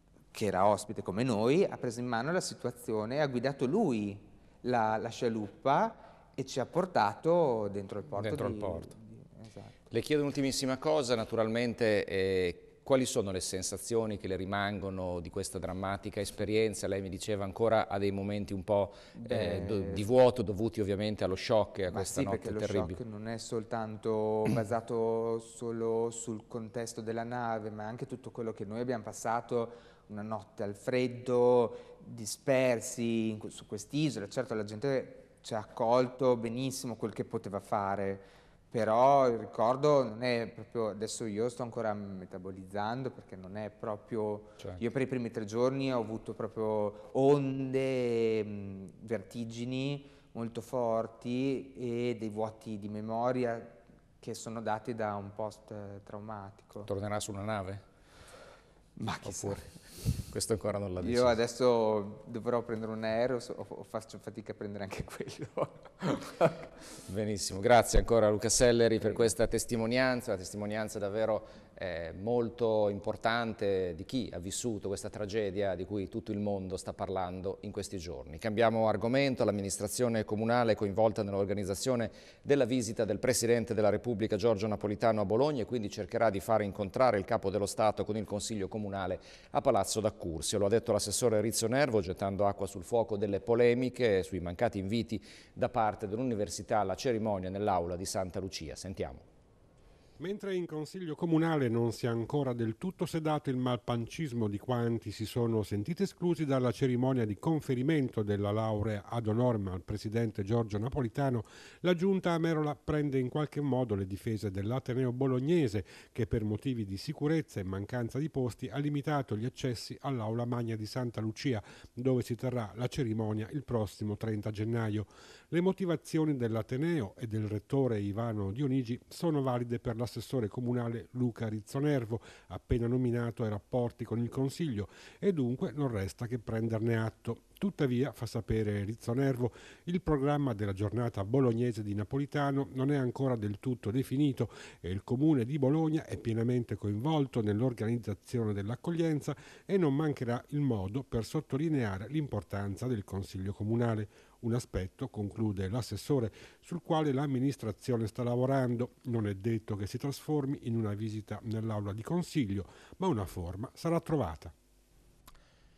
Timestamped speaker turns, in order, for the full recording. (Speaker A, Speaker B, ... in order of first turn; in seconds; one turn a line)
Speaker A: 0.3-9.8
Speaker B: 8.2-8.9
Speaker B: 9.9-23.0
Speaker A: 19.2-20.1
Speaker A: 21.9-56.9
Speaker B: 56.9-57.8
Speaker A: 59.0-59.8
Speaker B: 59.2-61.4
Speaker A: 61.0-66.7
Speaker B: 67.1-99.3
Speaker C: 100.2-164.5